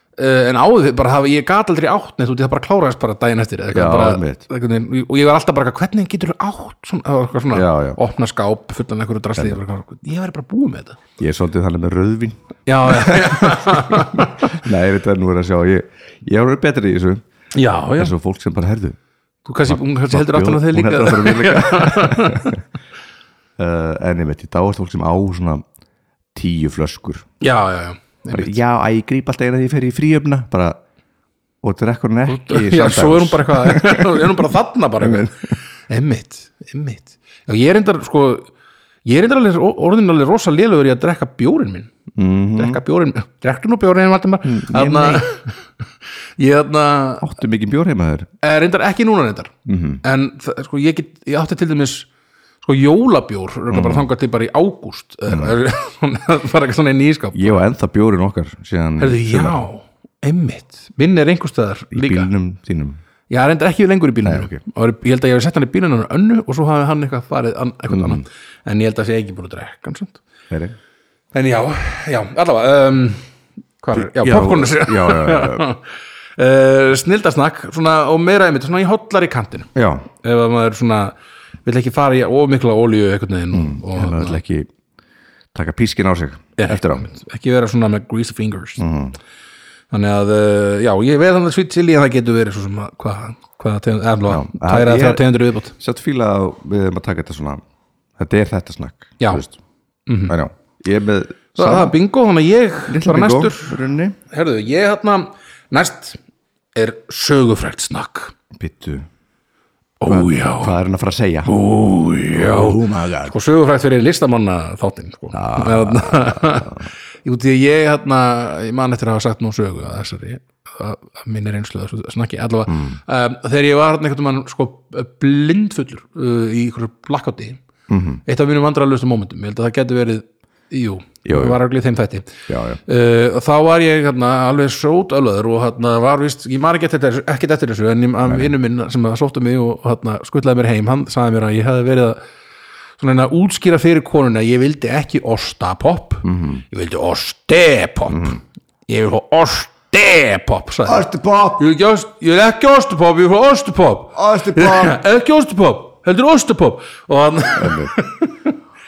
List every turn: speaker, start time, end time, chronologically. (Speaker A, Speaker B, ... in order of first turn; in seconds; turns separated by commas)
Speaker A: 0.2-11.0, Speaker B: 3.7-4.4, Speaker B: 7.5-8.0, Speaker B: 11.2-17.2, Speaker A: 12.7-14.5, Speaker A: 17.5-18.1, Speaker B: 18.0-19.0, Speaker A: 19.4-22.5, Speaker B: 19.7-22.6, Speaker B: 23.6-25.6, Speaker B: 26.4-27.3, Speaker A: 27.4-28.6, Speaker B: 28.3-30.8, Speaker B: 31.6-34.5, Speaker A: 32.3-38.5, Speaker B: 35.0-35.3, Speaker A: 39.1-41.9, Speaker B: 42.1-42.8, Speaker A: 42.5-45.6, Speaker B: 44.5-45.3, Speaker A: 46.4-47.3, Speaker B: 47.2-48.3, Speaker A: 48.4-52.1, Speaker B: 49.7-50.0, Speaker A: 52.6-57.6, Speaker B: 53.7-54.1, Speaker B: 55.3-55.6, Speaker B: 57.3-59.6, Speaker A: 59.0-62.3, Speaker B: 61.9-63.0, Speaker A: 63.3-70.2, Speaker B: 64.2-64.6, Speaker B: 67.9-68.2, Speaker B: 70.5-70.8, Speaker A: 71.3-73.2, Speaker A: 73.8-84.4, Speaker B: 73.9-75.7, Speaker B: 79.8-80.1, Speaker B: 83.5-84.7, Speaker B: 85.5-87.1, Speaker A: 86.6-88.8, Speaker B: 88.8-89.2, Speaker A: 89.9-95.7, Speaker B: 94.3-97.6, Speaker B: 98.2-99.6, Speaker A: 100.1-100.3, Speaker B: 100.3-102.0, Speaker A: 101.6-103.8, Speaker B: 102.9-104.2, Speaker A: 104.3-106.2, Speaker A: 106.8-108.3, Speaker B: 108.5-109.1, Speaker A: 110.0-110.8, Speaker B: 110.1-111.5, Speaker A: 111.5-127.6, Speaker B: 112.3-113.3, Speaker B: 115.3-116.9, Speaker B: 122.7-123.0, Speaker B: 127.9-128.2, Speaker A: 128.2-142.2, Speaker B: 131.2-131.6, Speaker B: 132.5-132.8, Speaker B: 138.3-138.5, Speaker A: 143.0-158.6, Speaker B: 146.2-146.6, Speaker B: 148.1-148.4, Speaker B: 150.8-151.7, Speaker B: 154.2-155.0, Speaker B: 157.6-157.9